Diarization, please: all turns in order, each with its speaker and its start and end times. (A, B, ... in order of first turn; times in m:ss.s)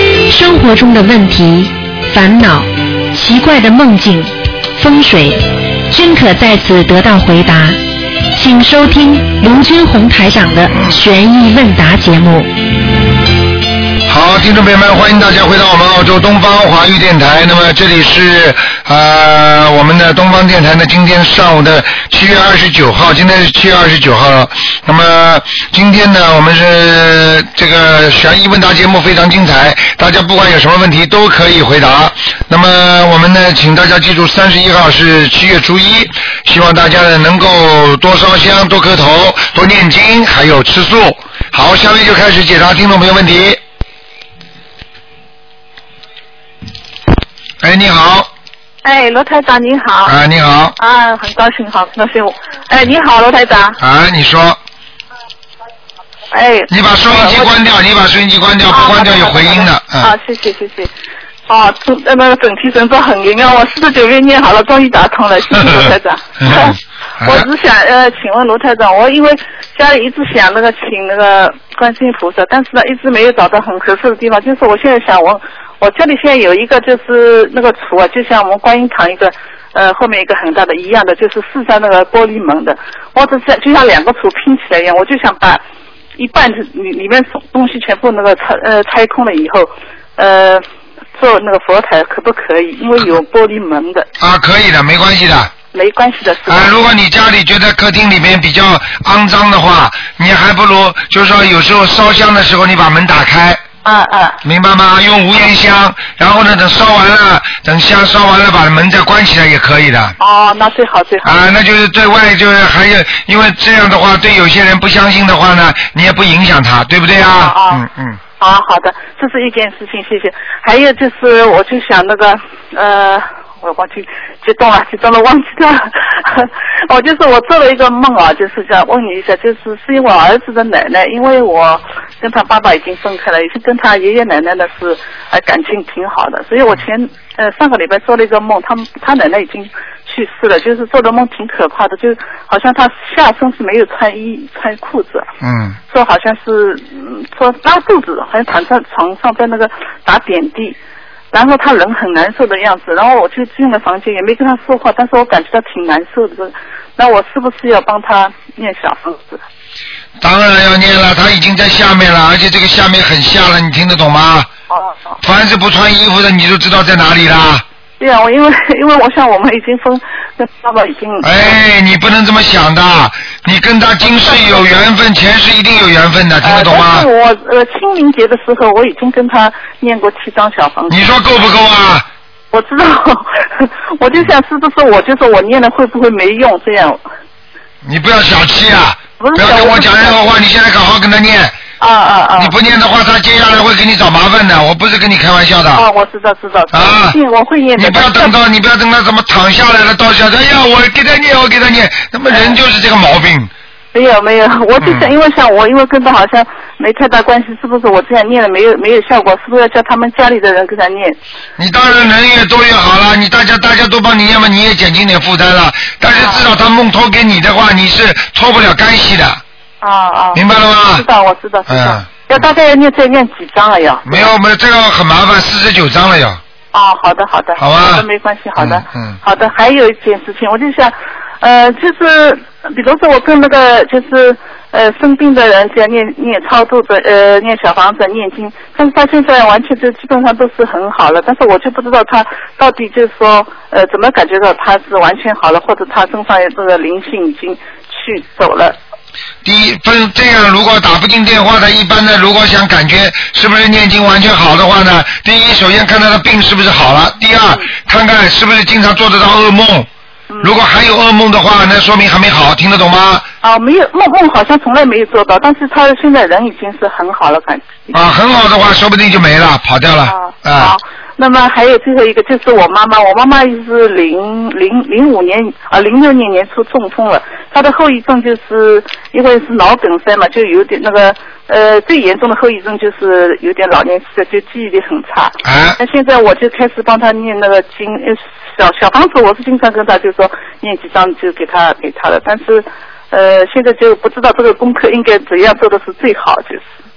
0:00.3-0:07.8 A
0:08.3-0:12.5 A
0:10.7-0:11.0 B
0:14.1-0:43.6 B
0:47.6-0:48.3 B
0:48.8-0:50.2 C
0:50.0-0:50.8 B
0:50.8-0:53.8 C
0:53.8-0:54.6 B
0:56.3-0:57.5 C
0:56.7-1:00.2 B
0:58.7-1:00.9 C
1:01.5-1:25.6 C
1:06.4-1:07.5 B
1:26.2-1:30.6 C
1:31.2-1:34.1 C
1:34.2-1:35.5 B
1:35.7-1:36.7 C
1:36.5-1:43.6 B
1:43.8-1:44.4 C
1:44.4-1:50.2 B
1:50.2-1:51.3 C
1:51.2-1:58.2 B
1:57.2-1:57.8 C
1:58.4-2:25.3 C
2:25.4-2:25.8 B
2:25.9-2:30.8 C
2:31.3-2:39.4 C
2:40.2-2:44.5 B
2:44.7-2:45.2 C
2:45.2-2:47.6 B
2:48.0-2:51.6 C
2:51.2-2:57.1 B
2:54.0-2:54.7 C
2:56.4-3:01.1 C
3:00.9-3:02.1 B
3:02.5-3:07.0 C
3:07.8-3:11.6 B
3:09.2-3:10.2 C
3:11.8-3:12.6 C
3:12.4-3:15.9 B
3:15.7-3:18.3 C
3:16.7-3:17.2 B
3:17.8-3:23.5 B
3:22.3-3:22.6 C
3:23.9-3:31.2 C
3:24.8-3:25.1 B
3:31.6-3:39.4 B
3:36.1-3:36.4 C
3:39.8-3:44.3 C
3:40.3-3:41.1 B
3:41.7-3:42.4 B
3:44.1-3:46.4 B
3:46.7-4:08.8 C
3:47.6-3:48.1 B
3:48.6-3:49.2 B
4:09.4-4:19.9 B
4:20.3-4:20.6 C
4:20.4-4:23.3 B
4:23.4-4:28.0 C
4:27.9-4:30.8 B
4:30.0-4:56.7 C
4:45.4-4:45.8 B